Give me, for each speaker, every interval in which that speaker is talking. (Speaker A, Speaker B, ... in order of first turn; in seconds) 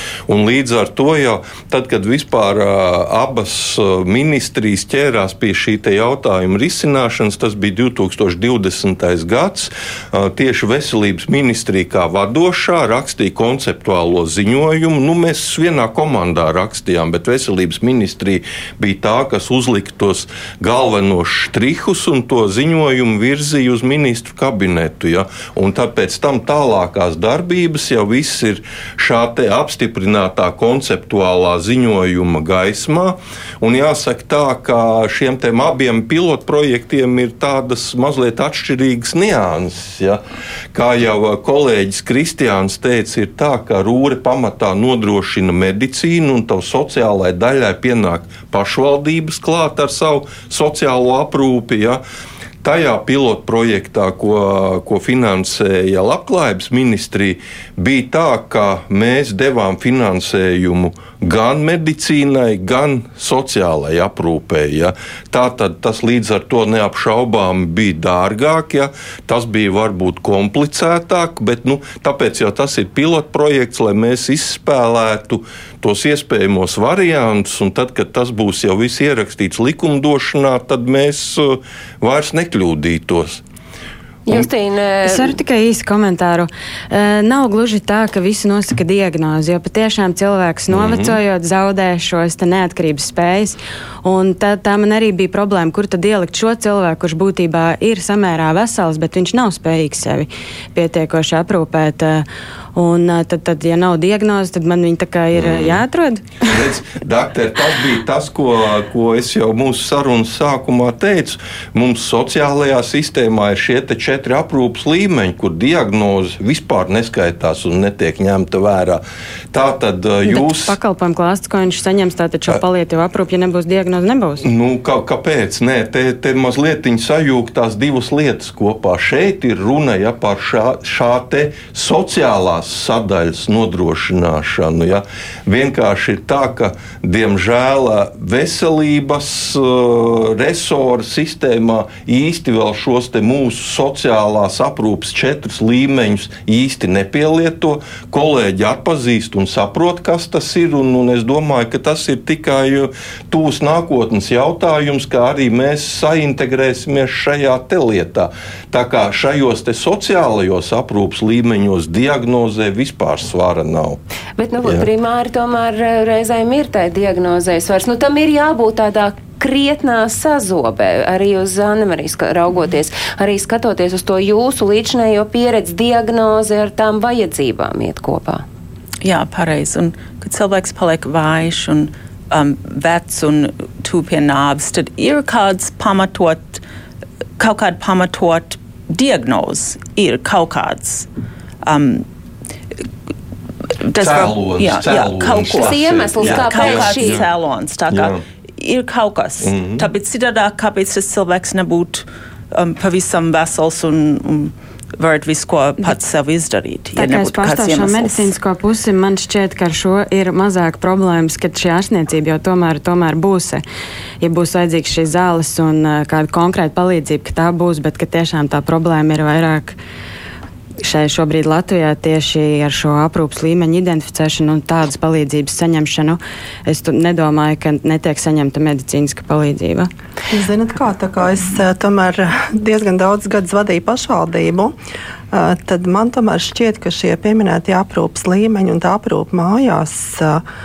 Speaker A: 0.3-40.2, 40.7-52.0, 52.6-83.4, 90.7-91.2, 105.3-105.8, 106.5-120.8, 124.4-164.0, 194.0-197.3, 197.9-198.2, 199.4-199.9
Speaker B: 84.3-85.3, 164.4-178.4, 195.5-197.2
Speaker C: 85.0-106.5, 120.2-124.5, 207.0-213.6, 214.2-219.8, 220.8-229.9
Speaker D: 179.0-186.6, 187.4-191.1, 191.6-192.1, 193.8-208.3
Speaker E: 230.3-234.7, 235.3-240.4